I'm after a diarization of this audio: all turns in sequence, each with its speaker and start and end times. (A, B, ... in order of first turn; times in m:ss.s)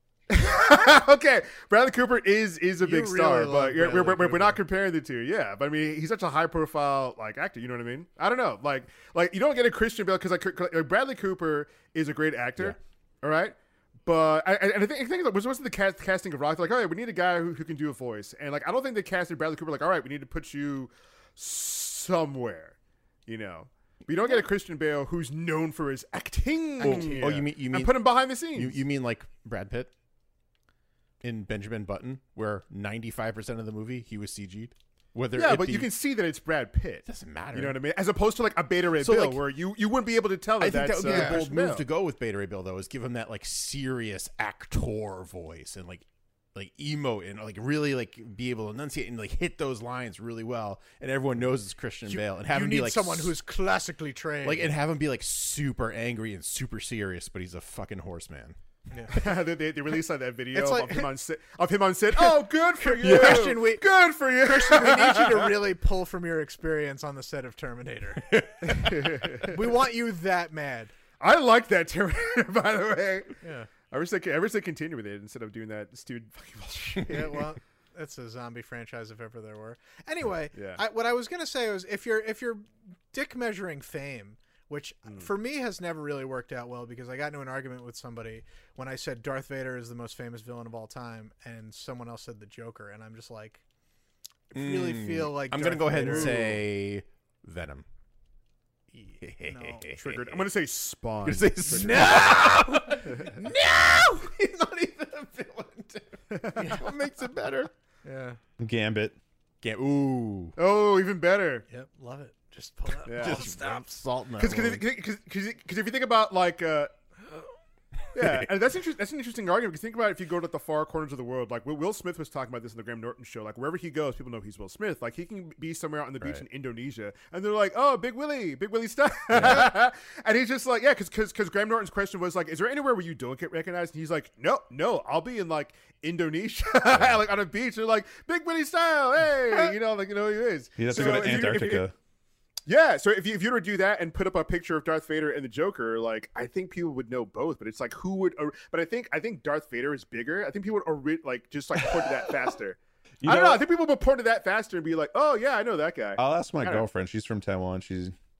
0:00.3-0:22.8 A
0:02.8-0:04.6 B
0:23.3-0:28.8 A
0:26.8-0:27.4 B
0:26.8-0:29.9 C
0:31.2-0:35.9 C
0:35.4-0:41.8 A
0:37.0-0:37.8 C
0:39.0-0:39.4 C
0:40.6-0:53.3 C
0:41.0-0:41.4 B
0:52.0-0:54.7 B
0:54.4-0:58.6 C
0:59.1-1:05.5 A
1:00.5-1:01.1 B
1:02.1-1:03.9 B
1:03.0-1:03.6 C
1:04.4-1:10.9 B
1:08.2-1:08.8 C
1:08.6-1:09.8 A
1:11.2-1:13.4 A
1:13.4-1:13.7 B
1:13.9-1:17.4 A
1:17.0-1:33.6 B
1:20.5-1:20.8 A
1:34.5-1:36.5 B
1:34.5-1:37.9 C
1:36.1-1:36.6 A
1:38.9-1:39.9 B
1:39.2-1:40.4 C
1:39.9-1:42.5 A
1:41.2-1:47.7 C
1:41.7-1:44.0 B
1:43.1-1:43.4 A
1:46.3-1:46.8 A
1:48.0-1:48.4 B
1:48.6-1:49.2 D
1:49.6-1:50.6 C
1:50.6-1:51.7 A
1:51.7-1:53.8 B
1:53.0-1:53.4 A
1:53.2-1:54.8 C
1:54.4-1:56.9 A
1:58.1-1:58.5 C
1:58.1-2:21.9 A
2:09.3-2:09.7 C
2:16.9-2:17.2 C
2:20.8-2:21.9 D
2:20.9-2:21.2 B
2:22.6-2:36.9 A
2:33.2-2:33.6 D
2:36.2-2:38.1 D